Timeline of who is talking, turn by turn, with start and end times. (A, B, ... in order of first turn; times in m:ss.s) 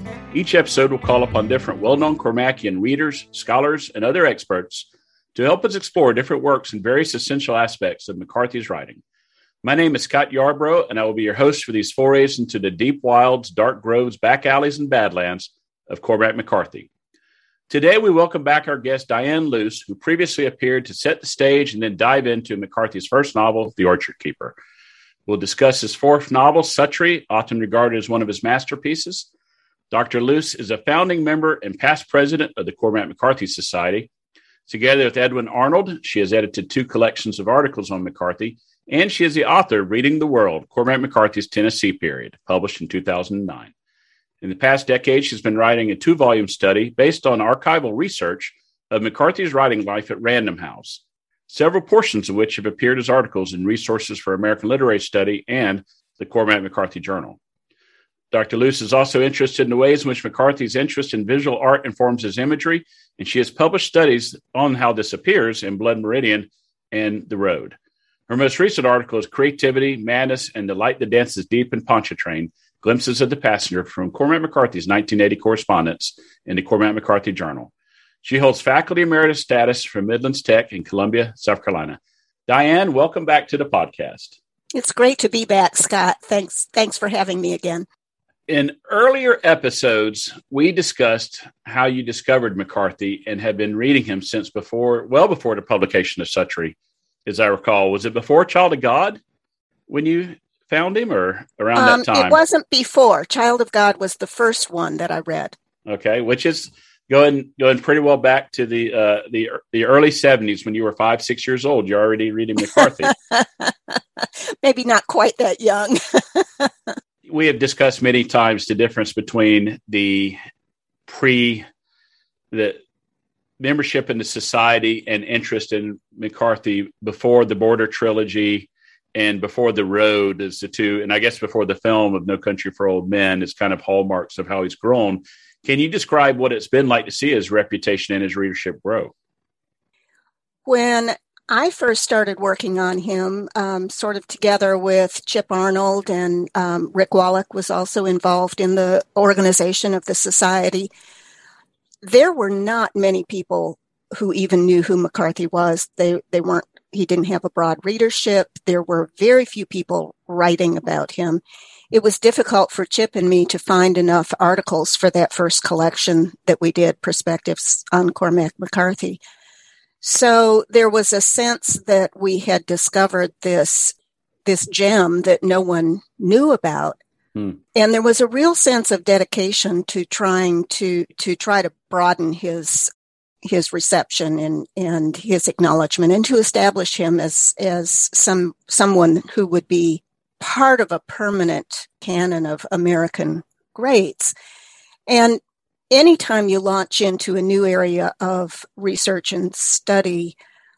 0:00.3-0:09.0 A
0:09.6-0:16.9 A
0:17.7-0:24.6 A
0:25.3-0:29.3 A
0:29.9-0:34.1 A
0:34.7-0:43.7 A
0:44.4-0:57.4 A
0:58.3-1:07.8 A
1:08.3-1:17.7 A
1:18.2-1:24.3 A
1:24.7-1:27.9 B
1:28.5-1:36.8 A
1:37.3-1:39.2 A
1:39.9-1:42.4 A
1:41.8-1:45.6 B
1:45.9-1:53.1 A
1:52.8-1:54.0 B
1:54.6-1:56.7 B
1:57.3-2:00.4 A
2:01.1-2:01.7 A
2:02.5-2:02.8 A
2:03.6-2:19.1 A
2:20.7-2:30.9 B
2:32.0-2:49.2 B
2:50.0-2:53.9 B
2:54.5-2:57.0 B
2:57.8-3:02.9 B
3:03.4-3:14.4 B
3:15.1-3:20.4 B